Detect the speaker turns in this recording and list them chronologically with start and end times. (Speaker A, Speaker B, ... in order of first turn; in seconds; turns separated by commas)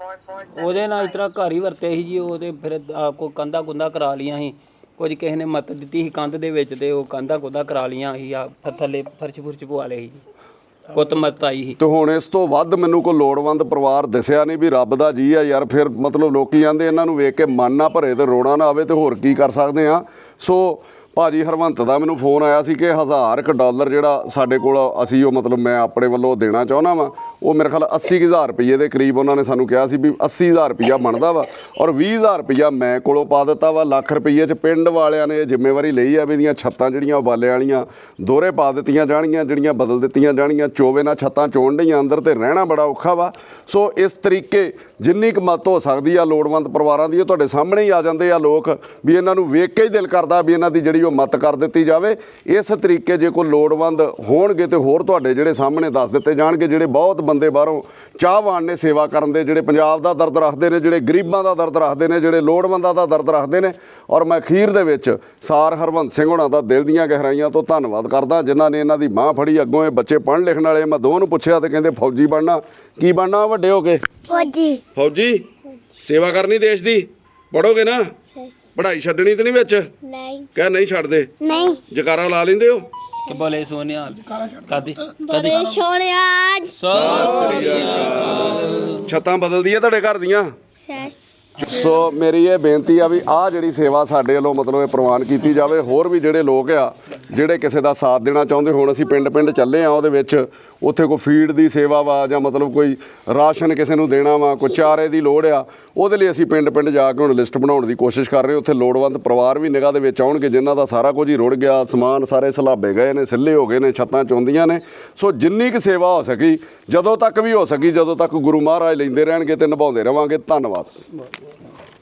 Speaker A: 0.4-10.2, Speaker A: 10.9-11.8, Speaker B: 11.8-74.0, Speaker C: 74.3-74.8, Speaker B: 74.9-75.4, Speaker B: 76.0-78.1, Speaker C: 78.3-78.7, Speaker B: 78.7-79.9, Speaker C: 80.0-80.5, Speaker B: 80.5-82.9, Speaker C: 81.4-81.8, Speaker A: 83.2-85.7, Speaker C: 85.2-86.7, Speaker A: 86.7-88.9, Speaker B: 86.9-90.5, Speaker C: 90.8-91.7, Speaker B: 91.6-121.0